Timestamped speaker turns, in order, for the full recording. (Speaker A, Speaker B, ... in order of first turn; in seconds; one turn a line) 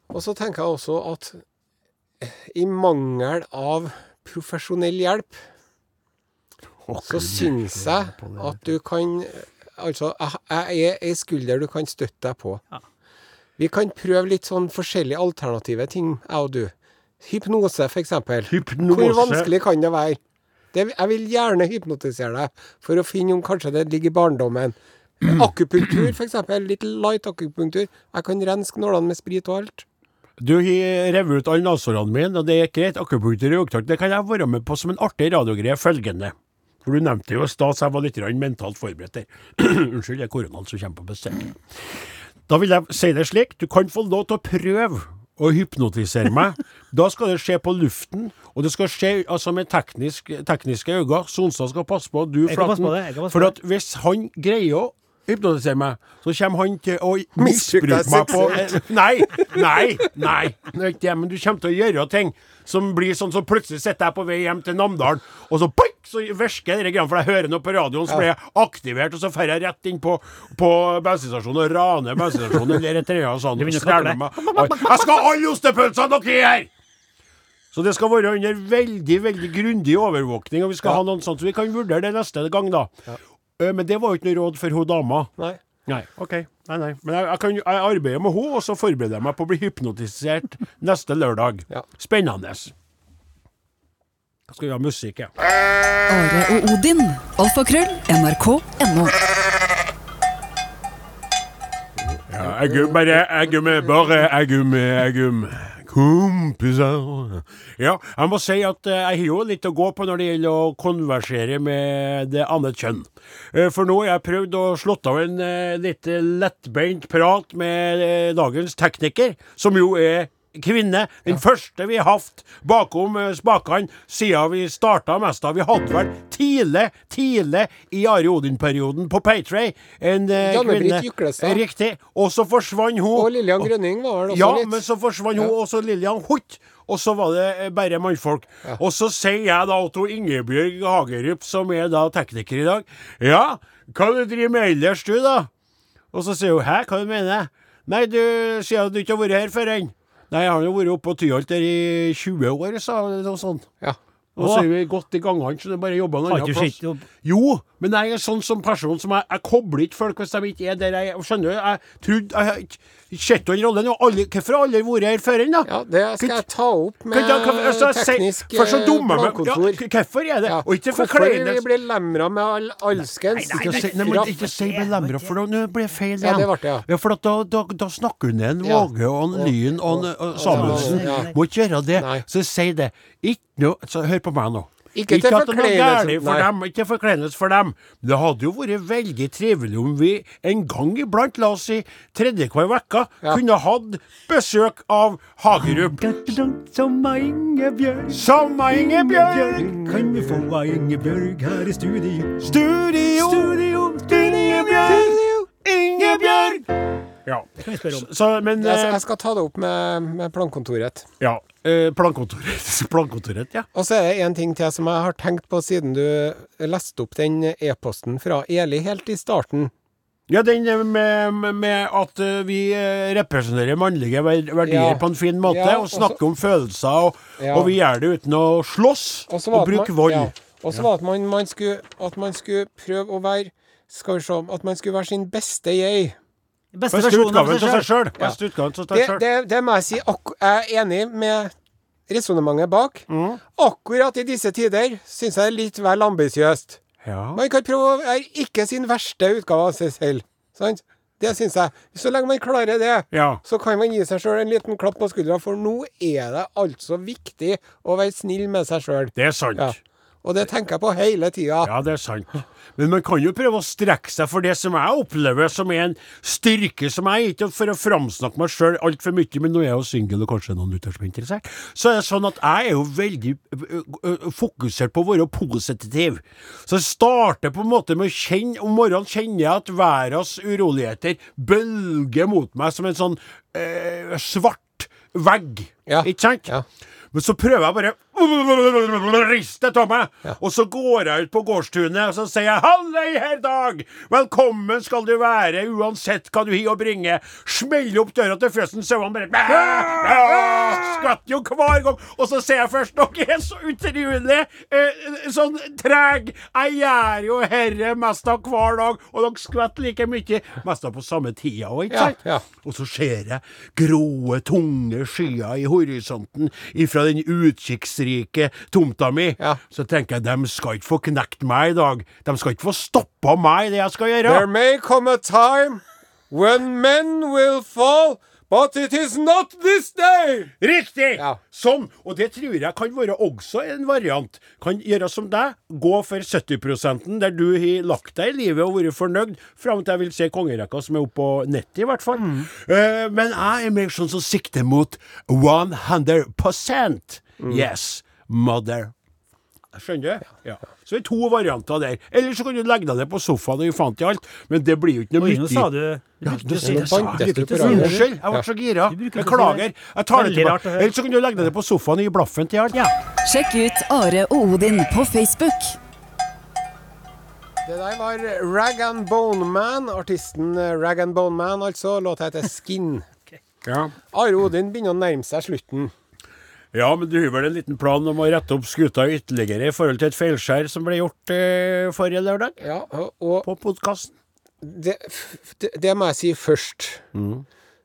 Speaker A: 0.1-1.4
Speaker A: 2.2-5.4
Speaker B: 6.9-8.7
Speaker A: 7.0-12.6
Speaker A: 13.6-20.2
Speaker B: 18.5-19.5
Speaker A: 20.7-29.9
Speaker B: 30.4-41.6
Speaker B: 42.5-76.7
Speaker C: 52.5-53.5
Speaker A: 57.4-59.6
Speaker C: 73.6-75.1
Speaker B: 77.7-82.9
Speaker B: 83.6-85.3
Speaker B: 85.9-92.7
Speaker B: 94.5-95.3
Speaker D: 96.1-99.2
Speaker A: 102.1-103.2
Speaker B: 102.3-133.7
Speaker A: 130.4-131.6
Speaker A: 133.2-134.8
Speaker B: 134.3-145.5
Speaker B: 146.1-153.7
Speaker B: 154.4-165.7
Speaker C: 154.4-154.7
Speaker C: 156.3-157.0
Speaker A: 165.7-169.8
Speaker B: 166.2-166.4
Speaker B: 167.1-171.7
Speaker A: 170.5-174.3
Speaker C: 173.3-175.3
Speaker B: 173.5-196.1
Speaker A: 176.2-176.8
Speaker A: 178.6-181.3
Speaker C: 180.4-181.3
Speaker A: 182.0-182.2
Speaker A: 184.9-186.5
Speaker C: 195.7-202.5
Speaker B: 198.1-201.3
Speaker B: 202.4-205.2
Speaker C: 203.1-206.6
Speaker B: 205.7-206.6
Speaker B: 207.2-209.0
Speaker C: 207.6-208.1
Speaker A: 208.6-211.1
Speaker B: 211.2-213.7
Speaker A: 213.7-219.7
Speaker B: 220.3-230.3
Speaker A: 224.6-226.2
Speaker A: 227.4-227.7
Speaker A: 229.3-236.2
Speaker C: 236.7-237.9
Speaker B: 236.9-239.2
Speaker A: 238.9-241.5
Speaker A: 242.1-246.8
Speaker B: 243.1-243.4
Speaker B: 247.0-247.4
Speaker A: 247.3-261.7
Speaker B: 253.1-253.4
Speaker B: 259.2-259.8
Speaker B: 261.6-286.5
Speaker A: 285.9-286.6
Speaker B: 287.1-324.5
Speaker A: 311.9-312.4
Speaker A: 324.3-330.5
Speaker B: 330.6-348.9
Speaker C: 342.2-342.5
Speaker A: 347.4-347.7
Speaker B: 349.7-355.7
Speaker C: 355.2-358.1
Speaker B: 356.2-362.8
Speaker A: 356.6-358.4
Speaker C: 358.9-360.9
Speaker D: 363.2-365.8
Speaker A: 367.7-373.1
Speaker B: 373.6-373.9
Speaker A: 374.1-375.9
Speaker B: 376.7-382.6
Speaker A: 382.6-383.5
Speaker B: 383.4-384.1
Speaker A: 384.6-387.0
Speaker B: 387.1-387.4